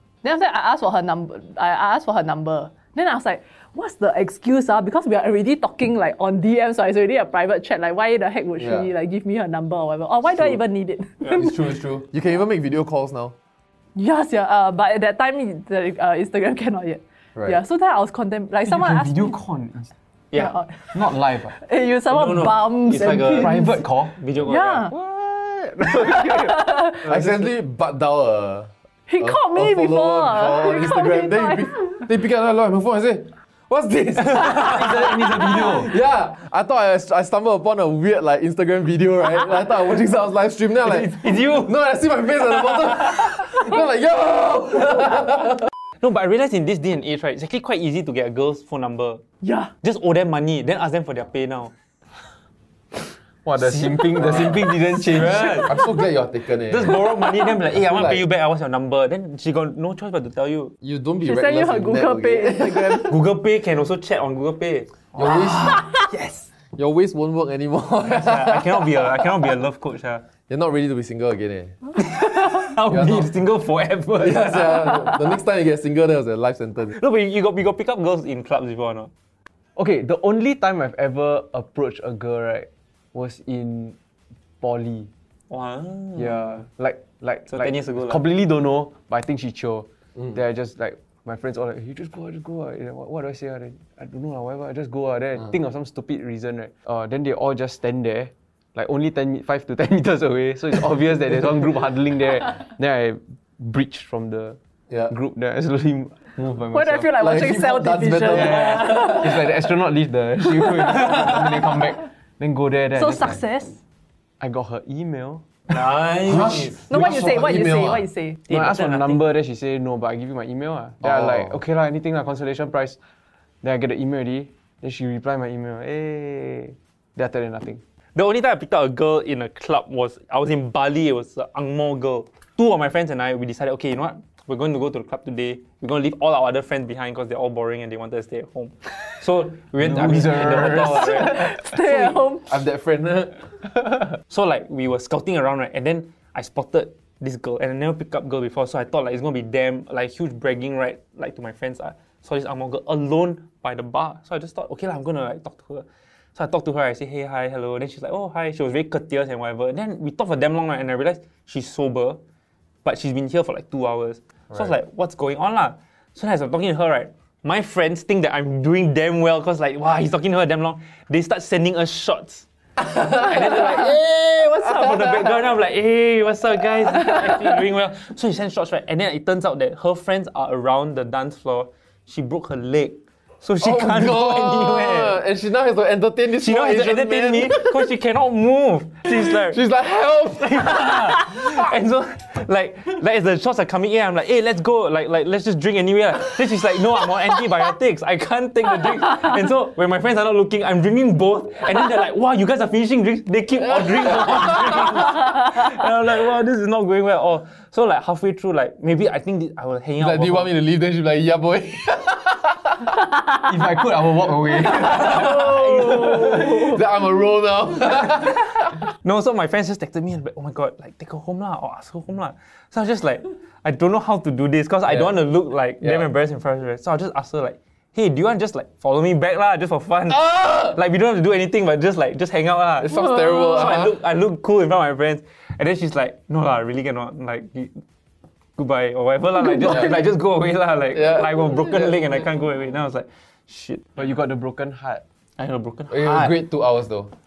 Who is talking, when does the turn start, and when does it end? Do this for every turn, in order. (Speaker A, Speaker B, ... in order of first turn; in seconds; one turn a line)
Speaker A: 0.2-11.6
Speaker B: 8.6-8.9
Speaker B: 11.3-13.3
Speaker A: 14.0-19.4
Speaker C: 18.7-19.9
Speaker A: 20.4-21.0
Speaker C: 20.9-21.6
Speaker A: 21.5-23.8
Speaker D: 22.1-24.9
Speaker C: 23.3-24.1
Speaker A: 24.5-24.9
Speaker C: 24.9-27.5
Speaker A: 26.1-27.0
Speaker B: 27.0-45.7
Speaker A: 29.1-32.0
Speaker C: 34.6-35.9
Speaker D: 40.8-41.7
Speaker D: 46.0-49.2
Speaker A: 49.4-49.7
Speaker D: 49.8-51.7
Speaker C: 53.5-55.7
Speaker D: 53.6-55.8
Speaker B: 54.2-54.5
Speaker B: 55.6-57.1
Speaker D: 56.7-60.8
Speaker B: 57.8-58.2
Speaker B: 60.8-63.1
Speaker A: 61.2-63.1
Speaker D: 63.1-66.5
Speaker B: 65.2-65.9
Speaker B: 66.8-69.3
Speaker D: 68.2-70.3
Speaker B: 70.5-71.9
Speaker D: 72.0-75.2
Speaker B: 72.9-73.3
Speaker B: 74.2-77.0
Speaker D: 76.9-79.1
Speaker C: 79.8-84.0
Speaker C: 84.6-85.1
Speaker D: 85.5-86.4
Speaker C: 86.2-107.2
Speaker D: 87.5-88.2
Speaker A: 106.7-109.2
Speaker B: 107.2-109.2
Speaker C: 108.3-113.4
Speaker A: 113.0-113.8
Speaker C: 114.4-115.5
Speaker D: 115.7-116.8
Speaker B: 116.2-118.1
Speaker A: 116.9-118.4
Speaker D: 118.5-119.2
Speaker C: 118.5-123.0
Speaker B: 121.0-121.6
Speaker C: 123.6-127.8
Speaker D: 128.2-141.5
Speaker C: 139.8-141.5
Speaker B: 140.2-141.0
Speaker A: 140.9-142.5
Speaker B: 141.9-144.1
Speaker D: 144.3-162.2
Speaker D: 162.8-185.2
Speaker B: 183.6-187.9
Speaker D: 186.3-189.6
Speaker B: 189.1-191.5
Speaker D: 190.5-210.5
Speaker B: 210.0-213.0
Speaker C: 213.3-216.7
Speaker B: 214.6-218.8
Speaker D: 215.2-216.5
Speaker D: 219.0-237.8
Speaker B: 232.8-233.9
Speaker D: 238.6-243.9
Speaker B: 241.0-242.0
Speaker C: 244.0-245.0
Speaker D: 245.4-246.4
Speaker B: 245.9-247.1